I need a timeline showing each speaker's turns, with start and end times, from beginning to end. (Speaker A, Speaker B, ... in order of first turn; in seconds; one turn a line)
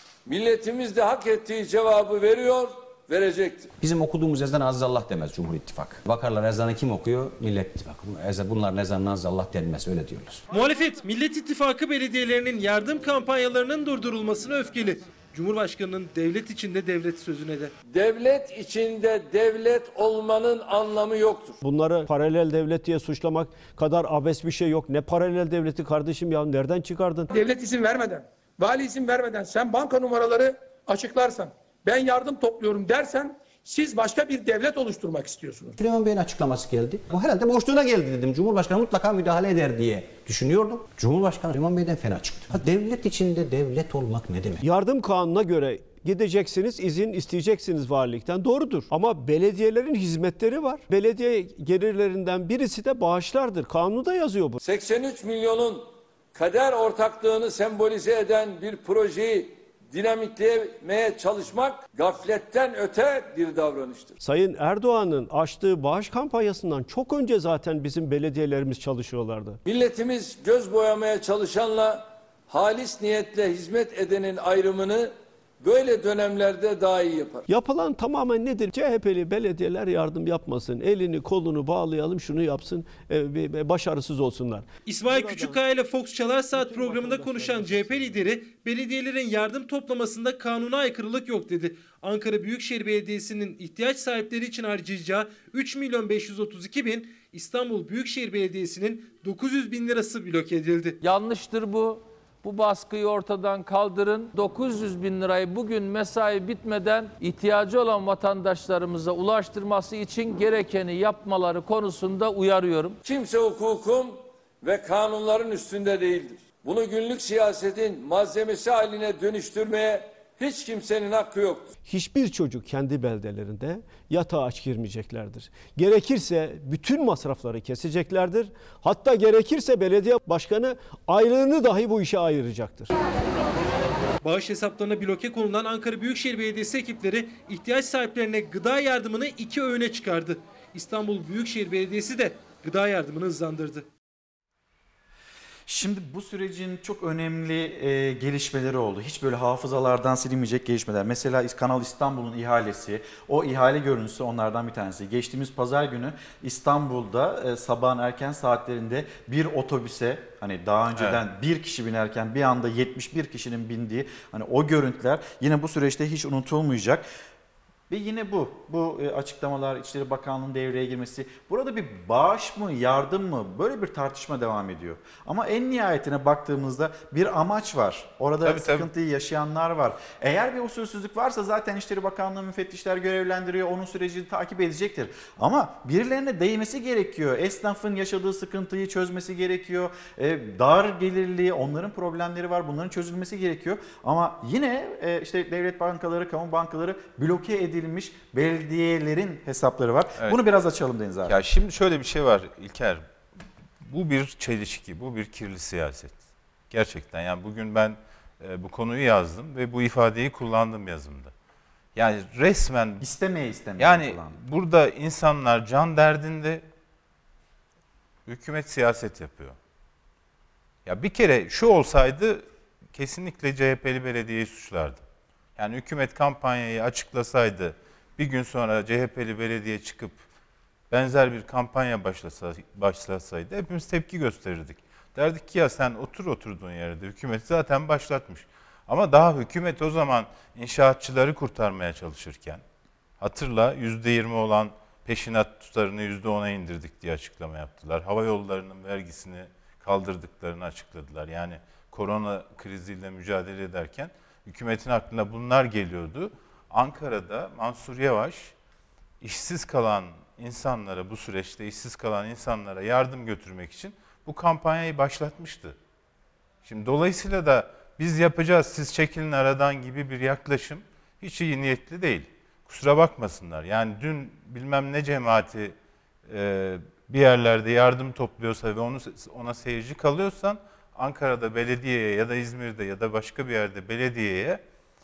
Speaker A: 0.2-3.7
Speaker B: 3.8-10.4
Speaker C: 10.5-17.7
Speaker A: 17.9-21.6
Speaker D: 21.6-27.3
Speaker E: 27.3-35.8
Speaker B: 35.8-44.6
Speaker D: 44.6-54.6
Speaker A: 54.6-64.2
Speaker D: 64.2-69.6
Speaker A: 69.6-77.5
Speaker D: 77.5-85.6
Speaker C: 84.8-101.0
Speaker D: 86.5-88.2
Speaker F: 101.0-113.0
Speaker A: 113.0-121.7
Speaker D: 121.8-132.9
Speaker C: 134.2-143.9
Speaker G: 145.7-167.0
Speaker G: 167.9-201.3
Speaker H: 178.4-178.9
Speaker H: 201.2-203.1
Speaker H: 203.8-211.3
Speaker H: 211.9-213.1
Speaker G: 213.0-214.4
Speaker H: 213.8-216.6
Speaker H: 218.2-219.6
Speaker H: 220.8-225.0
Speaker H: 225.6-230.2
Speaker H: 230.9-242.6
Speaker H: 243.2-258.5
Speaker H: 259.2-265.8
Speaker H: 266.6-275.7
Speaker H: 276.3-284.6